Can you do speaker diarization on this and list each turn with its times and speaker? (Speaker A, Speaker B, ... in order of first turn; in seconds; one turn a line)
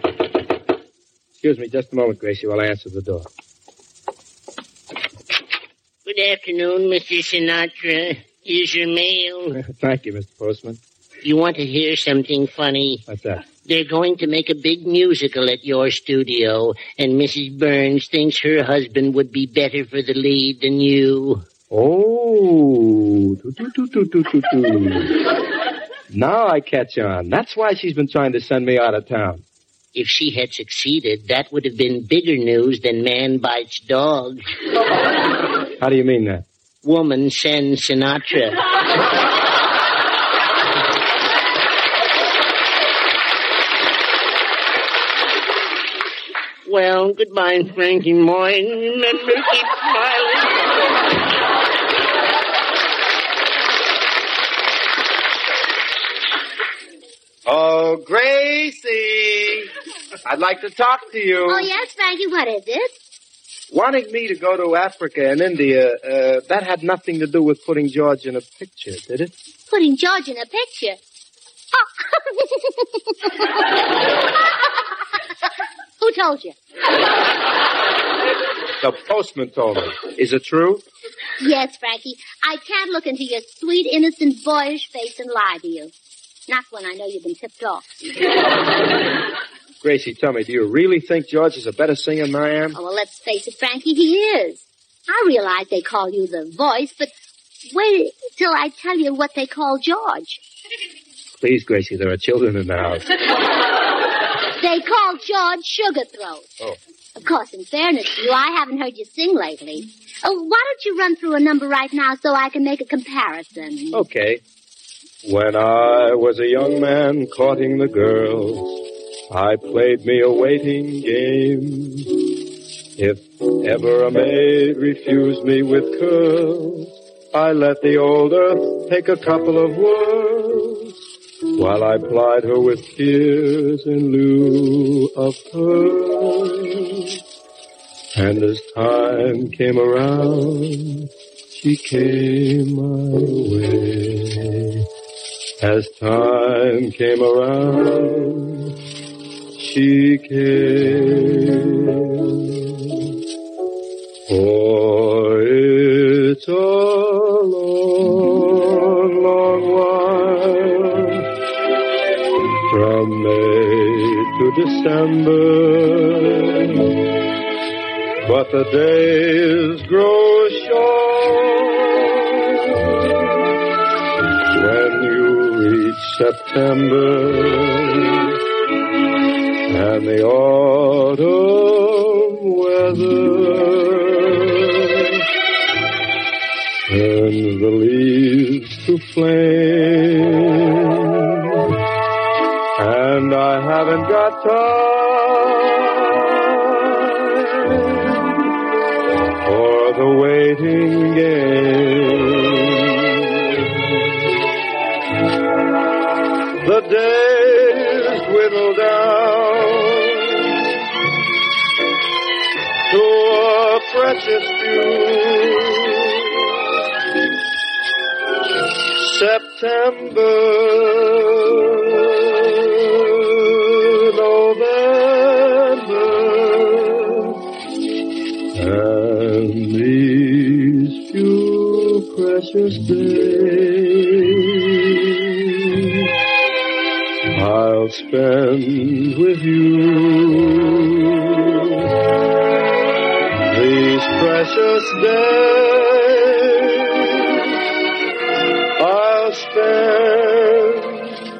Speaker A: 1.4-3.3
Speaker B: 6.0-9.6
Speaker A: 9.6-10.8
Speaker B: 11.2-21.4
Speaker A: 13.1-13.4
Speaker A: 21.7-25.1
Speaker A: 26.1-29.4
Speaker B: 29.9-34.4
Speaker A: 35.8-36.4
Speaker B: 36.8-38.6
Speaker B: 46.6-50.6
Speaker A: 57.5-59.7
Speaker A: 60.2-61.7
Speaker C: 61.5-63.0
Speaker A: 63.7-69.3
Speaker C: 69.7-71.0
Speaker C: 71.7-73.5
Speaker C: 76.0-76.5
Speaker A: 78.8-80.8
Speaker C: 81.4-85.9
Speaker C: 86.5-87.9
Speaker A: 89.8-92.8
Speaker C: 92.7-97.1
Speaker C: 97.7-100.4
Speaker A: 101.4-103.0
Speaker C: 104.6-106.5
Speaker C: 107.2-114.0
Speaker A: 113.9-114.4
Speaker A: 115.2-122.2
Speaker A: 123.0-130.9
Speaker A: 131.6-137.1
Speaker A: 138.1-144.8
Speaker A: 145.6-148.7
Speaker A: 149.6-152.9
Speaker A: 154.3-161.2
Speaker A: 162.7-166.7
Speaker A: 168.2-172.3
Speaker A: 174.5-178.2
Speaker A: 179.7-185.1
Speaker A: 186.9-190.7
Speaker A: 192.8-198.3
Speaker A: 199.4-202.8
Speaker A: 206.6-210.4
Speaker A: 212.9-216.3
Speaker A: 218.9-222.5
Speaker A: 224.0-227.3
Speaker A: 228.5-235.1
Speaker A: 237.3-241.7
Speaker A: 243.5-247.1
Speaker A: 248.8-251.1